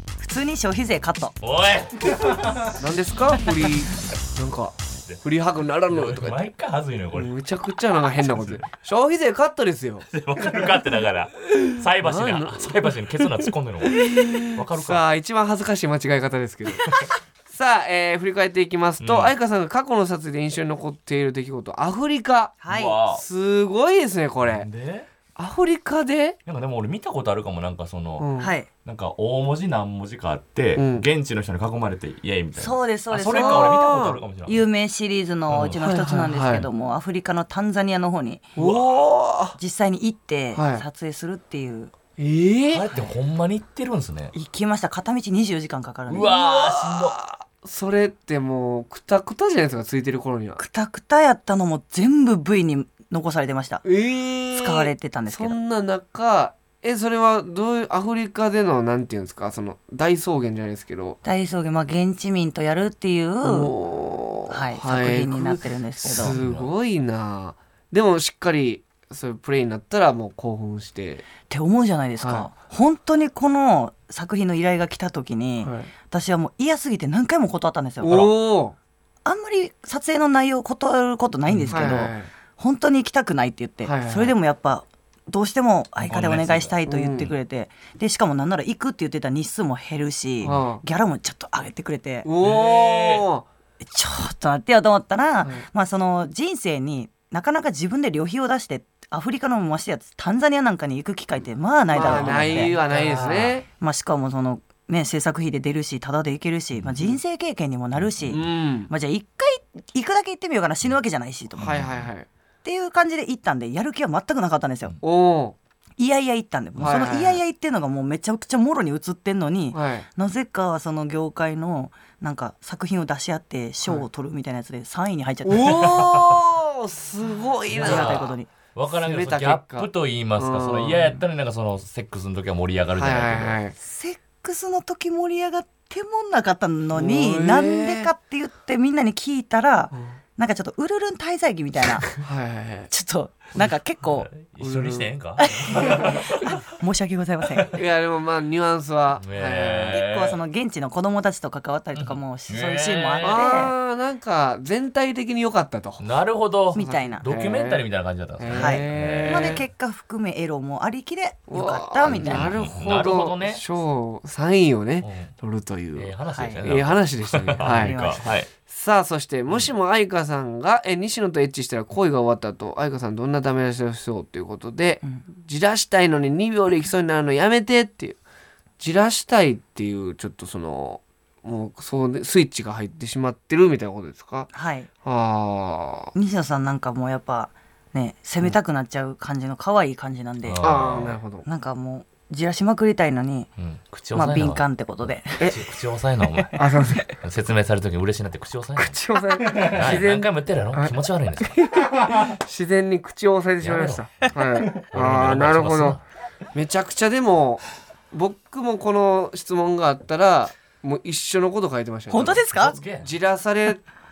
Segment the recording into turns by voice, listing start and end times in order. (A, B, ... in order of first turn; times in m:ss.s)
0:00.2-0:01.3 A
0:01.4-0:02.7 B
0:02.7-0:06.5 C
0:05.9-0:07.3 B
0:07.1-0:10.0 C
0:08.2-0:08.6 B
0:10.1-0:15.0 B
0:11.5-0:13.0 C
0:13.8-0:24.7 C
0:19.0-0:19.3 B
0:22.6-0:23.0 A
0:22.7-0:23.2 B
0:24.4-0:25.1 B
0:25.4-0:26.4 C
0:26.4-0:28.3 B
0:28.2-0:28.5 C
0:28.4-0:28.7 A
0:28.8-0:34.6 B
0:30.8-0:31.0 C
0:32.6-0:33.9 A
0:33.3-0:34.2 C
0:34.4-0:38.5 A
0:35.5-0:35.8 B
0:35.8-0:36.7 C
0:38.6-0:39.6 C
0:38.6-0:38.9 B
0:39.6-0:41.9 A
0:40.5-0:40.8 C
0:42.2-0:42.8 C
0:42.7-0:44.3 B
0:44.3-0:46.3 A
0:46.1-0:47.2 B
0:46.2-0:50.6 C
0:50.6-0:53.8 A
0:53.8-1:01.2 C
0:54.5-0:55.6 A
1:01.2-1:03.7 A
1:03.4-1:11.2 C
1:04.5-1:06.4 A
1:06.0-1:06.7 B
1:11.5-1:18.3 A
1:12.2-1:12.5 C
1:15.6-1:15.9 C
1:18.0-1:18.8 C
1:19.2-1:32.3 A
1:21.5-1:21.8 B
1:21.7-1:22.3 C
1:23.8-1:24.3 C
1:26.0-1:26.7 B
1:26.9-1:27.3 C
1:30.4-1:30.8 C
1:32.2-1:33.4 C
1:32.4-1:33.2 B
1:33.8-1:42.8 A
1:41.9-1:43.6 C
1:42.0-1:43.6 B
1:43.8-1:51.9 A
1:48.3-1:48.9 C
1:51.6-1:52.3 C
1:51.6-1:52.0 B
1:52.6-1:54.9 A
1:55.0-1:55.6 C
1:56.0-2:06.0 A
1:56.8-1:57.4 C
1:59.7-2:00.1 C
2:05.4-2:08.3 C
2:07.7-2:13.6 B
2:07.8-2:08.5 A
2:09.0-2:11.2 C
2:13.0-2:13.7 C
2:13.8-2:22.1 A
2:16.9-2:18.1 C
2:22.2-2:22.9 C
2:22.9-2:24.3 A
2:24.2-2:26.5 B
2:24.6-2:25.1 C
2:25.4-2:27.8 A
2:27.7-2:30.0 C
2:29.2-2:30.4 B
2:29.9-2:33.7 A
2:31.9-2:33.5 B
2:33.2-2:36.0 C
2:36.0-2:39.6 B
2:36.7-2:37.2 A
2:37.2-2:37.8 C
2:38.4-2:39.6 C
2:38.5-2:42.5 A
2:41.5-2:46.1 C
2:42.1-2:43.6 B
2:45.0-2:45.3 B
2:45.9-2:48.5 B
2:46.4-2:46.6 A
2:46.6-2:58.2 C
2:47.6-2:48.3 A
2:58.8-3:04.5 C
3:04.5-3:04.9 A
3:05.0-3:06.1 C
3:06.1-3:10.7 A
3:10.4-3:11.2 B
3:10.6-3:11.4 C
3:11.4-3:13.5 A
3:13.6-3:16.6 B
3:14.1-3:15.6 A
3:16.6-3:17.1 C
3:17.2-3:19.0 B
3:18.8-3:26.0 C
3:19.6-3:21.6 B
3:23.6-3:26.0 B
3:26.5-3:33.8 C
3:32.1-3:32.8 A
3:32.2-3:33.1 B